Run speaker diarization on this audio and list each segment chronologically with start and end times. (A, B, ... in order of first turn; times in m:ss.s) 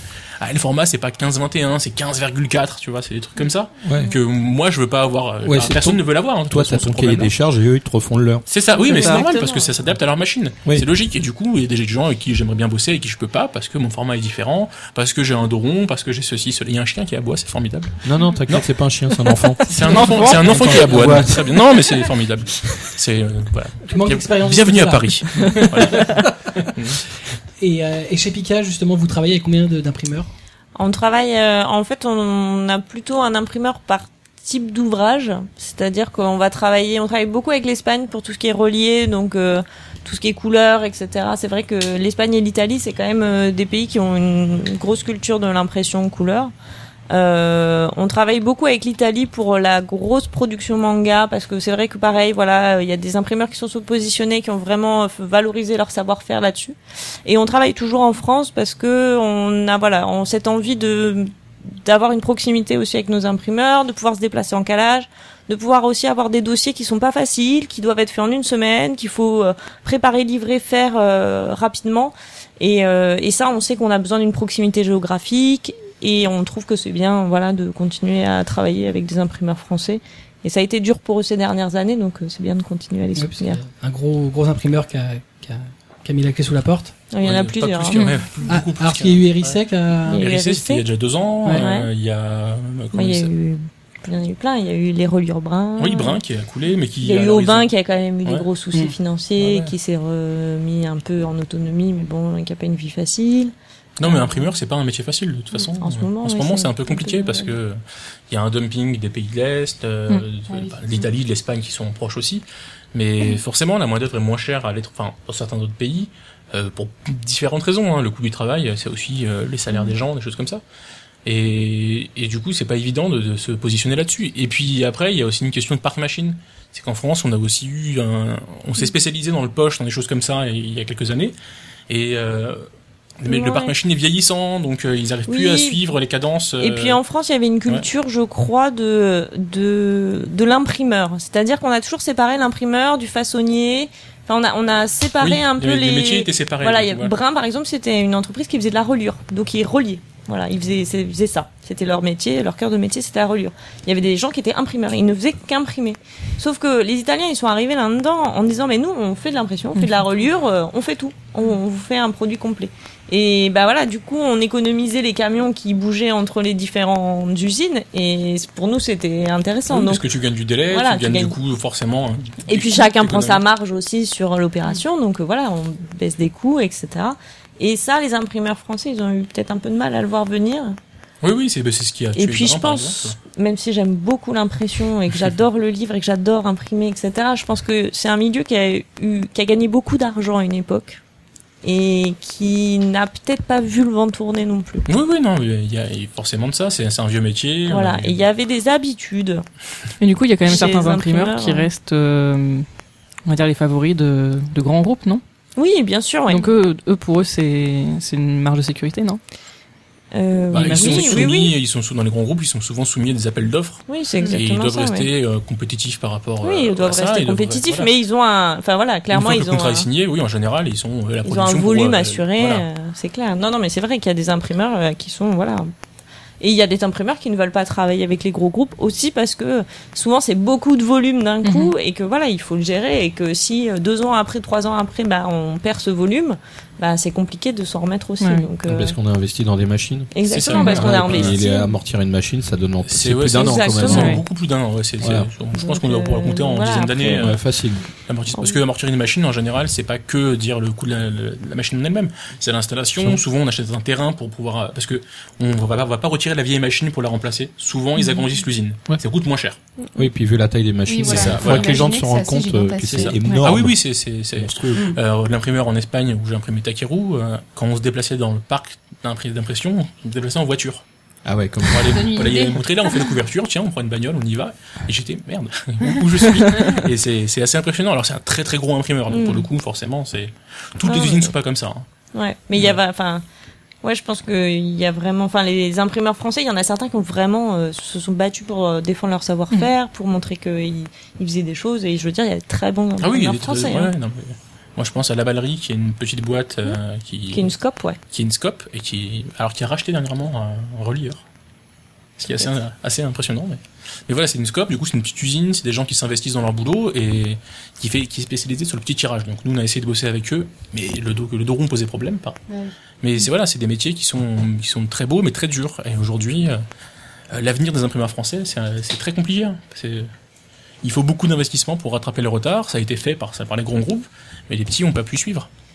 0:00.4-0:07.3 A
0:03.8-0:04.1 B
0:05.4-0:08.4 B
0:08.5-0:18.7 A
0:08.8-0:09.7 C
0:08.9-0:09.3 D
0:18.0-0:21.9 B
0:19.6-0:27.0 A
0:19.7-0:21.2 E
0:23.9-0:26.7 E
0:27.6-0:30.3 E
0:30.8-0:46.5 C
0:47.1-1:23.6 C
1:23.2-1:27.0 E
1:27.1-1:28.1 C
1:27.2-1:29.6 A
1:28.0-1:28.2 D
1:28.5-1:30.2 E
1:30.1-1:30.9 C
1:30.2-1:33.3 A
1:31.5-1:31.9 C
1:32.9-1:36.2 C
1:35.8-1:37.7 A
1:37.0-1:44.4 C
1:39.4-1:39.7 A
1:44.0-2:00.6 A
1:45.6-1:47.5 C
1:50.5-1:51.1 F
2:01.2-2:11.4 A
2:11.9-2:12.7 A
2:13.2-2:17.0 A
2:13.3-2:13.8 C
2:15.3-2:15.8 C
2:16.6-2:50.0 C
2:25.2-2:27.1 A
2:49.7-2:53.4 A
2:50.7-2:51.4 C
2:52.5-3:00.8 C
3:01.2-3:03.2 A
3:02.2-3:11.0 C
3:11.6-3:14.9 C
3:14.9-3:18.2 A
3:17.7-3:19.4 C
3:20.0-3:22.7 D
3:20.5-3:21.7 C
3:23.3-3:25.2 D
3:25.6-3:26.4 C
3:26.3-3:29.2 D
3:30.1-3:31.5 C
3:30.5-3:37.9 A
3:30.7-3:31.2 D
3:33.9-3:35.1 C
3:36.4-3:39.9 C
3:39.1-3:42.6 A
3:41.2-3:45.7 C
3:46.4-3:59.0 C
3:51.4-3:51.7 D
3:58.2-3:58.5 D
3:58.7-4:04.2 B
4:00.1-4:01.7 C
4:00.3-4:01.4 A
4:02.8-4:07.4 A
4:03.4-4:04.2 C
4:03.9-4:04.2 D
4:05.0-4:05.3 B
4:05.5-4:07.3 C
4:07.1-4:07.8 B
4:08.0-4:19.6 A
4:20.0-4:24.9 B
4:20.9-4:23.4 F
4:21.0-4:21.8 A
4:22.9-4:30.8 A
4:31.3-4:32.4 B
4:31.7-4:41.9 A
4:31.9-4:33.1 F
4:39.1-4:39.5 C
4:40.8-4:41.3 C
4:42.1-4:43.2 C
4:43.8-4:53.9 C
4:53.0-4:57.5 A
4:57.3-4:58.0 C
4:58.1-5:01.2 A
5:02.2-5:12.4 A
5:12.5-5:12.8 F
5:13.0-5:16.6 A
5:17.3-5:20.1 A
5:20.8-5:25.5 A